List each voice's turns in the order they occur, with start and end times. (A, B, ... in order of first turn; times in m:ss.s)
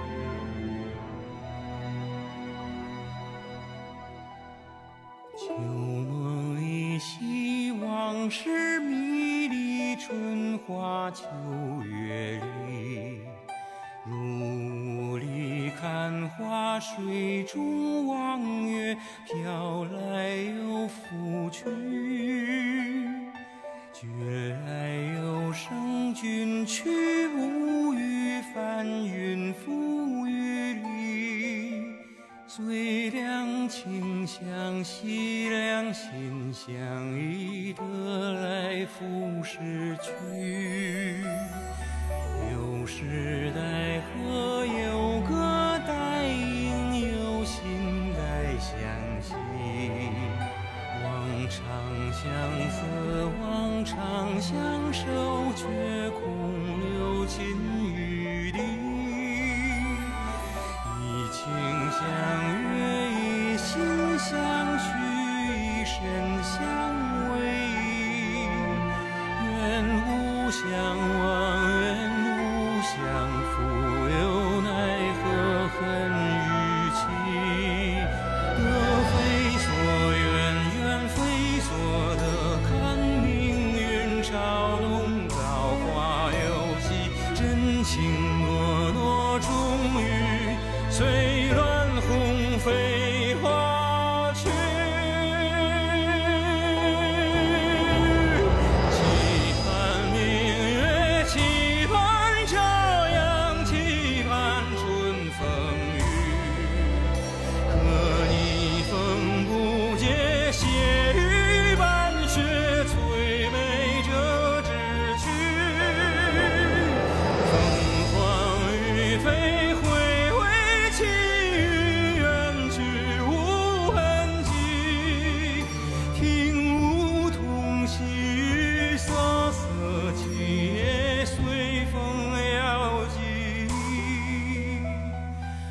0:05.4-0:13.4 A
0:14.0-0:23.3 A
0:23.9-0:41.6 A
0:42.3-1:00.1 A
1:00.8-1:47.1 A
1:47.6-2:15.1 A